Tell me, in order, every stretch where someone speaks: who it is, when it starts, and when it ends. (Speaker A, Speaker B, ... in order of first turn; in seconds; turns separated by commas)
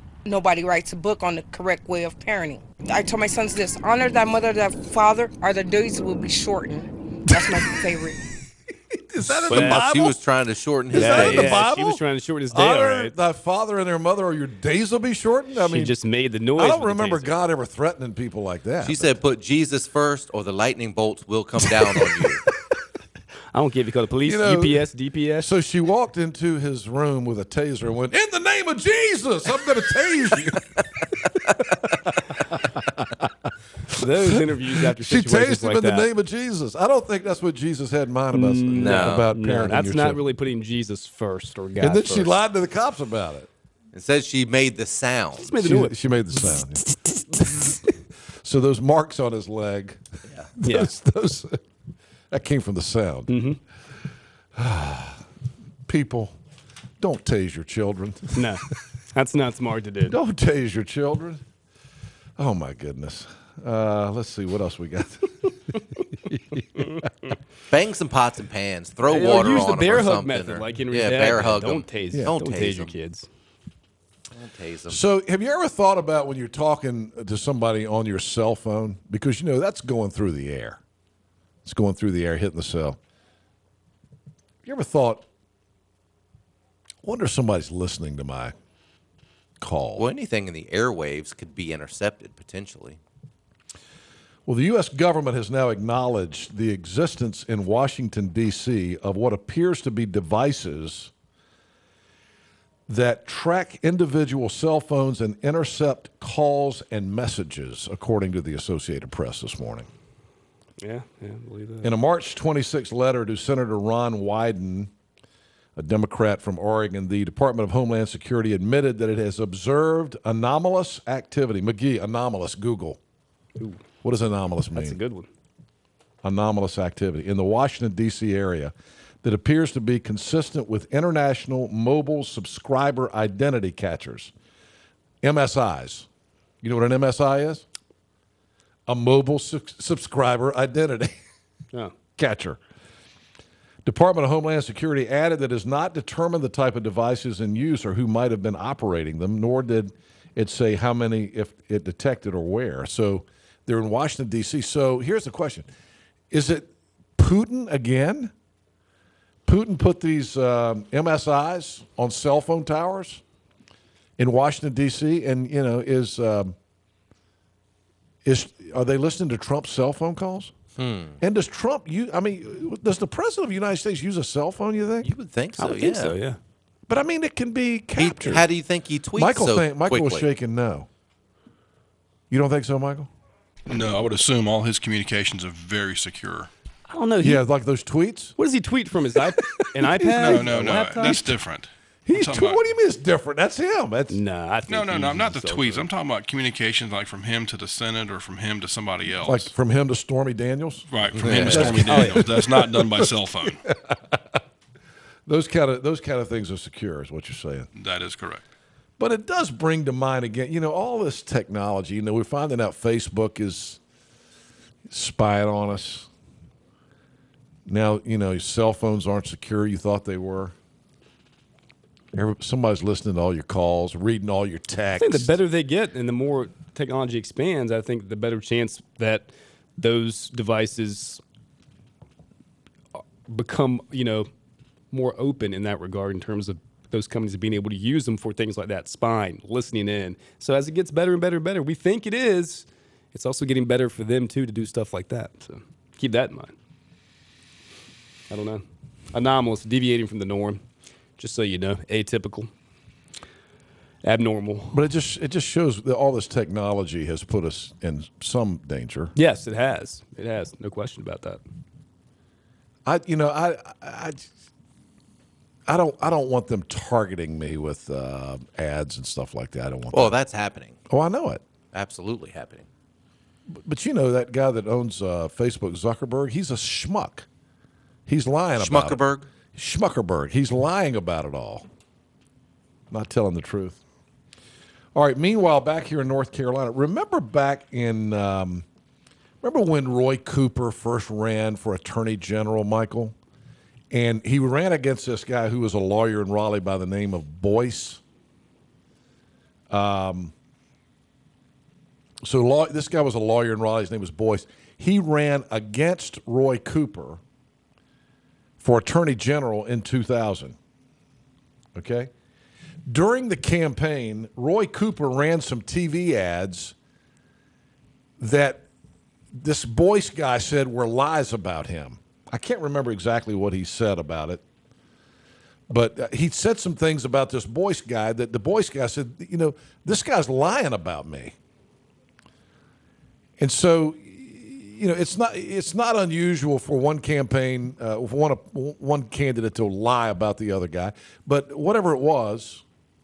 Speaker A: 0.3-8.2, Speaker B: 7.3-7.7, Speaker B: 9.1-10.2, Speaker C: 9.4-11.6, Speaker D: 9.5-9.8, Speaker B: 10.9-15.9, Speaker D: 10.9-13.1, Speaker D: 15.6-17.3, Speaker B: 16.6-19.1, Speaker C: 18.8-22.4, Speaker D: 23.5-25.5, Speaker B: 24.2-24.8, Speaker B: 25.4-30.8, Speaker B: 32.3-33.5, Speaker D: 33.9-36.1, Speaker B: 34.3-40.2, Speaker D: 38.3-42.4, Speaker C: 38.7-39.3, Speaker B: 41.8-43.5, Speaker C: 43.9-45.5, Speaker D: 45.4-46.0, Speaker B: 45.6-47.9, Speaker B: 48.4-50.0, Speaker B: 50.6-51.6, Speaker D: 50.6-50.9, Speaker B: 52.3-53.3, Speaker D: 53.3-53.6, Speaker B: 54.5-55.3, Speaker B: 55.9-56.4, Speaker B: 57.0-58.8, Speaker D: 58.4-60.2, Speaker B: 60.1-61.4, Speaker B: 62.4-67.1, Speaker C: 67.7-72.9, Speaker D: 69.1-73.3, Speaker C: 74.3-75.0, Speaker B: 74.9-80.8, Speaker B: 81.7-83.0, Speaker B: 84.6-85.3, Speaker B: 87.0-88.5, Speaker B: 89.6-90.0, Speaker C: 90.0-93.0, Speaker B: 94.5-101.1, Speaker B: 102.9-109.9, Speaker D: 110.8-111.9, Speaker B: 111.8-114.9, Speaker B: 115.8-123.0, Speaker B: 124.0-125.0, Speaker D: 124.7-125.3, Speaker B: 126.2-134.3, Speaker B: 135.2-136.1, Speaker B: 136.6-137.7, Speaker B: 138.9-141.2, Speaker B: 142.2-142.6, Speaker B: 143.8-155.7, Speaker B: 156.3-158.3, Speaker B: 159.4-163.2, Speaker B: 164.2-166.6, Speaker B: 168.2-170.5, Speaker C: 170.8-171.2, Speaker B: 171.2-175.1, Speaker C: 175.0-176.2, Speaker D: 175.6-176.4, Speaker B: 176.9-178.5, Speaker C: 178.0-180.3, Speaker B: 179.2-180.9, Speaker B: 182.3-183.1, Speaker E: 183.7-186.5, Speaker D: 186.9-187.4, Speaker B: 187.2-188.3, Speaker D: 188.4-191.2, Speaker B: 189.4-191.4, Speaker E: 190.1-192.6, Speaker B: 192.1-194.2, Speaker D: 194.1-195.9, Speaker E: 194.7-199.5, Speaker B: 199.2-204.4, Speaker E: 200.9-203.6, Speaker D: 201.3-202.4, Speaker B: 205.3-207.7, Speaker E: 207.8-208.4, Speaker B: 209.0-213.8, Speaker B: 214.9-216.1, Speaker B: 217.7-220.6, Speaker B: 222.1-225.3, Speaker D: 225.0-231.2, Speaker D: 233.3-234.3, Speaker D: 234.9-246.5, Speaker D: 248.3-250.6, Speaker D: 251.2-252.5, Speaker D: 254.0-254.8, Speaker B: 254.7-259.1, Speaker D: 259.1-261.4, Speaker B: 262.9-264.3, Speaker B: 265.7-270.2, Speaker C: 269.9-270.8, Speaker B: 270.9-271.4, Speaker C: 271.7-272.7, Speaker B: 273.5-277.3, Speaker B: 278.1-279.0, Speaker C: 278.6-279.3, Speaker B: 279.5-281.7, Speaker B: 282.9-283.8, Speaker B: 284.9-288.6, Speaker B: 289.4-293.1, Speaker B: 293.9-298.0, Speaker B: 299.7-300.3, Speaker B: 302.2-307.2, Speaker B: 308.6-310.6, Speaker B: 311.8-312.1, Speaker B: 312.9-316.8, Speaker B: 318.2-318.7, Speaker B: 319.3-324.4, Speaker B: 325.7-331.4, Speaker B: 333.4-342.6